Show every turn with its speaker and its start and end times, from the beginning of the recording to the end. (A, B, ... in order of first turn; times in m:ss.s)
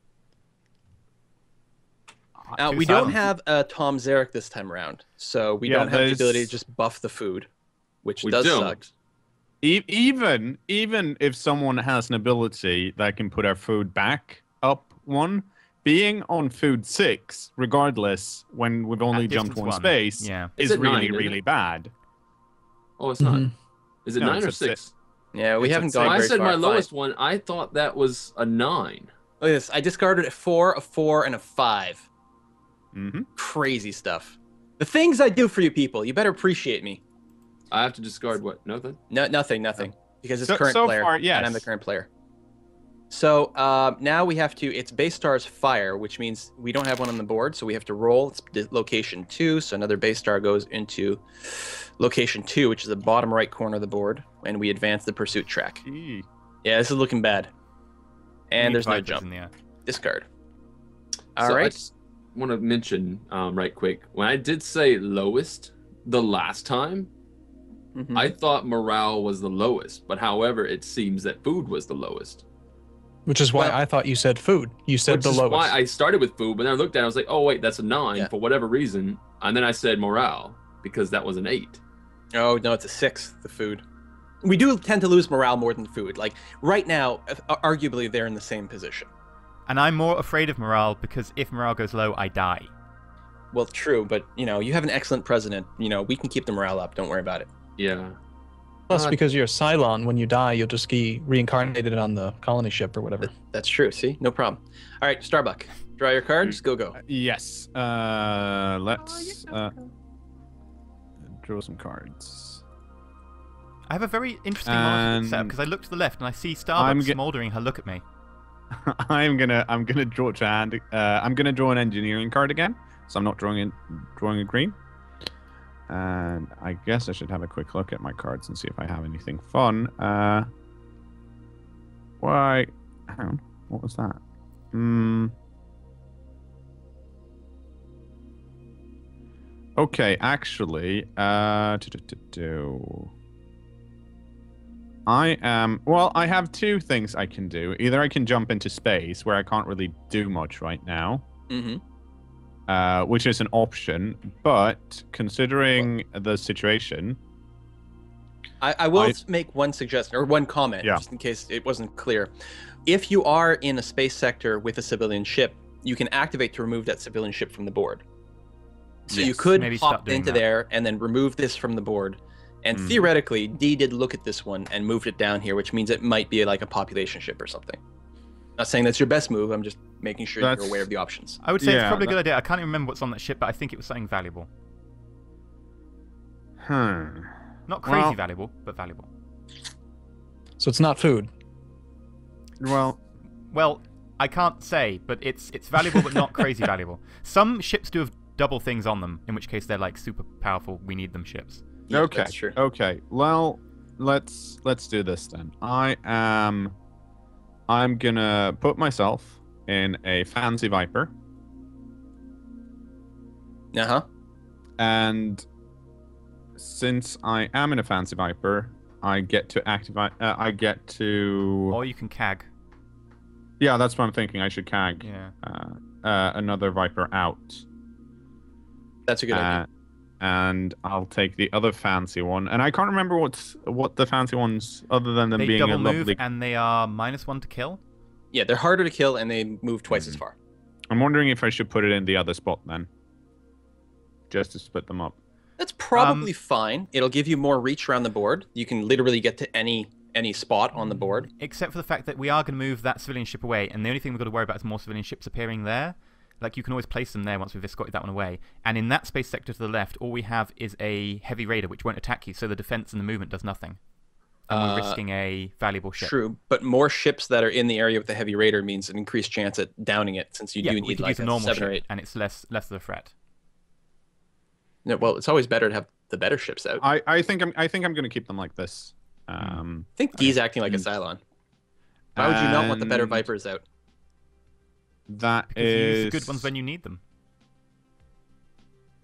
0:02.5-0:03.1 A
0:02.5-0:07.5 B
0:02.7-0:03.2 C
0:05.6-0:06.5 A
0:08.0-0:08.8 B
0:08.2-0:08.9 D
0:09.6-0:21.9 A
0:19.1-0:20.5 C
0:20.6-0:21.4 D
0:23.0-0:23.5 D
0:23.2-0:23.5 E
0:24.0-0:24.9 D
0:24.2-0:24.8 A
0:25.3-0:26.9 B
0:25.6-0:26.3 A
0:25.6-0:29.1 D
0:29.4-0:32.0 B
0:32.9-0:33.3 A
0:33.4-0:37.0 B
0:37.7-0:39.0 D
0:39.1-0:42.1 B
0:40.4-0:41.7 A
0:43.1-0:55.8 B
0:55.8-0:56.2 A
0:56.6-0:57.5 B
0:58.5-0:59.2 B
0:58.6-0:59.5 C
0:59.8-1:00.2 B
1:01.4-1:01.9 B
1:01.4-1:07.1 D
1:07.9-1:08.3 B
1:08.1-1:12.4 D
1:13.2-1:15.7 E
1:15.1-1:21.8 D
1:22.3-1:23.8 B
1:24.4-1:29.1 B
1:29.7-1:32.7 C
1:33.5-1:37.5 B
1:37.8-1:38.2 D
1:38.9-1:39.2 D
1:38.9-1:43.3 E
1:43.3-1:47.0 B
1:47.0-1:49.7 A
1:51.2-1:52.6 A
1:53.9-1:58.0 C
1:54.6-1:55.5 A
1:56.8-1:57.2 A
1:58.7-2:04.8 A
2:05.9-2:10.5 A
2:12.2-2:14.2 A
2:14.7-2:15.3 A
2:19.8-2:23.1 A
2:25.0-2:31.2 A
2:31.5-2:31.8 B
2:32.7-2:37.2 A
2:38.6-2:42.3 B
2:42.8-2:48.0 B
2:49.1-2:57.8 B
2:49.1-2:49.4 A
2:49.3-2:50.4 C
2:52.7-2:53.0 A
2:58.6-3:01.4 B
3:00.4-3:00.8 A
3:01.4-3:04.5 C
3:01.6-3:02.2 A
3:06.6-3:08.2 A
3:07.7-3:09.1 C
3:10.6-3:11.3 E
3:12.6-3:13.0 A
3:13.5-3:21.6 C
3:21.9-3:22.6 B
3:21.9-3:26.8 A
3:27.7-3:31.1 A
3:33.7-3:34.0 B
3:34.8-3:35.4 A
3:36.6-3:41.8 A
3:41.7-3:42.5 C
3:43.6-3:47.6 A
3:45.0-3:45.3 C
3:49.1-3:49.6 B
3:49.3-3:49.7 A
3:50.2-3:56.2 A
3:55.3-3:57.8 C
3:58.3-4:00.3 B
4:00.9-4:02.9 A
4:04.3-4:05.2 A
4:05.6-4:11.3 B
4:05.9-4:06.3 C
4:11.3-4:23.8 C
4:24.5-4:26.1 C
4:24.5-4:25.0 B
4:26.0-4:31.8 B
4:30.6-4:33.1 C
4:34.8-4:36.8 B
4:36.8-4:39.9 A
4:40.0-4:41.2 B
4:42.2-4:43.2 A
4:42.2-4:43.6 B
4:45.1-4:46.5 A
4:45.5-4:47.0 C